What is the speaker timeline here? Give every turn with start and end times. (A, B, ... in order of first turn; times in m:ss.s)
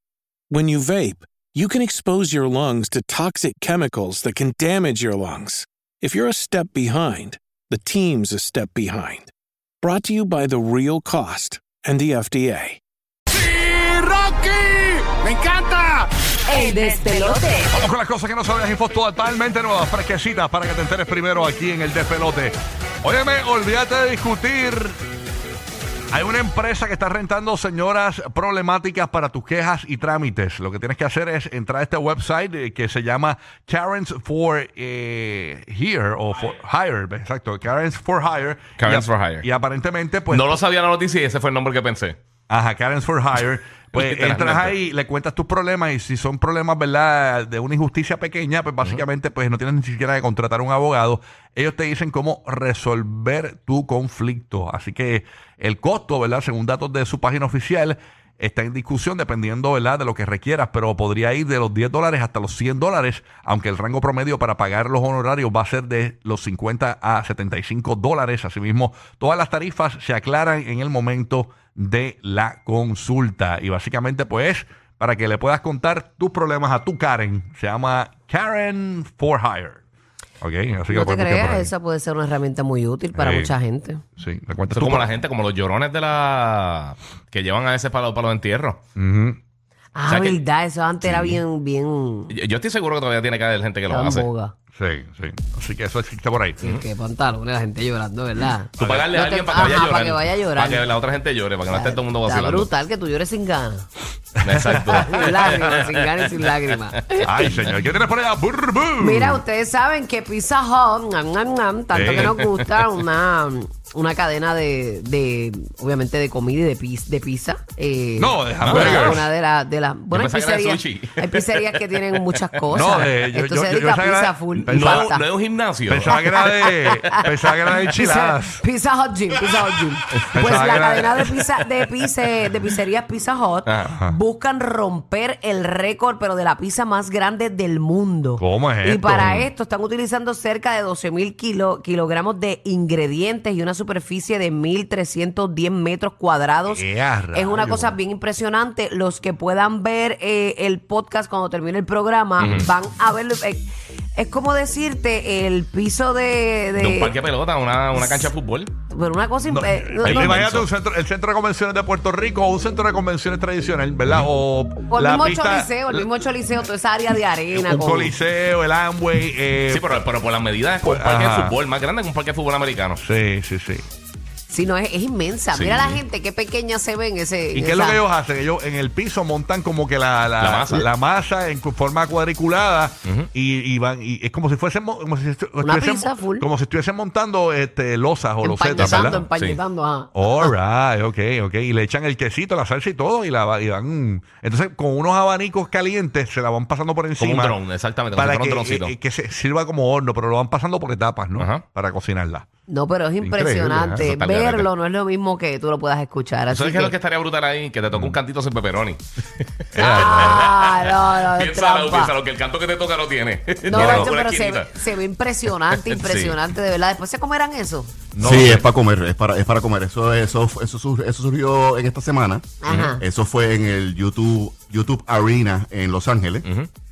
0:00.5-0:12.8 A
0:14.3-0:14.6 B
0:16.5-0:17.7 C
0:17.7-0:25.0 B
0:26.1-0:40.5 B
0:38.8-0:39.4 D
0:40.3-0:42.2 D
0:42.5-1:19.8 B
0:43.9-0:44.7 D
1:20.4-1:21.7 B
1:20.9-1:24.0 C
1:23.2-1:23.5 B
1:24.2-1:25.1 B
1:24.7-1:28.8 D
1:29.0-1:29.4 B
1:29.9-1:32.3 C
1:30.1-1:30.4 D
1:31.0-1:31.4 D
1:32.3-1:34.3 D
1:33.9-1:34.5 C
1:34.8-1:36.6 B
1:36.6-1:40.9 C
1:38.8-1:39.8 B
1:38.8-1:42.7 D
1:41.7-1:43.9 C
1:44.4-1:46.4 D
1:44.9-1:47.2 C
1:47.2-1:49.4 B
1:49.0-2:05.3 C
1:51.9-1:52.5 B
1:52.1-1:52.3 D
1:58.2-1:59.3 B
1:58.6-1:59.2 D
2:00.1-2:01.8 D
2:02.7-2:05.2 B
2:04.6-2:06.2 D
2:05.8-2:08.6 B
2:06.1-2:37.1 C
2:10.3-2:11.3 B
2:10.4-2:11.1 D
2:13.6-2:13.9 D
2:13.9-2:14.2 B
2:18.4-2:19.3 B
2:19.2-2:19.5 D
2:26.7-2:28.0 B
2:32.4-2:32.7 D
2:36.8-2:38.7 D
2:38.0-2:38.3 C
2:38.9-2:40.4 C
2:39.4-2:46.1 B
2:40.0-2:40.6 D
2:44.9-2:48.2 C
2:47.5-2:50.0 B
2:49.7-2:53.0 D
2:50.8-2:51.6 B
2:53.0-2:53.8 B
2:54.5-2:58.0 C
2:55.5-2:56.0 B
2:57.5-3:09.2 B
3:00.4-3:00.9 D
3:05.6-3:06.5 C
3:08.4-3:10.5 C
3:08.8-3:09.6 D
3:10.1-3:17.6 B
3:17.2-3:18.9 D
3:18.1-3:22.4 B
3:21.4-3:21.6 D
3:22.7-3:26.9 C
3:23.2-3:24.1 B
3:24.0-3:24.7 D
3:26.5-3:34.7 D
3:27.9-3:28.2 B
3:29.7-3:30.4 B
3:29.8-3:32.2 C
3:33.7-3:37.9 C
3:33.7-3:34.1 B
3:35.7-3:36.4 D
3:38.1-3:38.6 B
3:38.2-3:46.5 E
3:42.6-3:43.0 C
3:42.7-3:42.9 D
3:46.4-3:46.7 D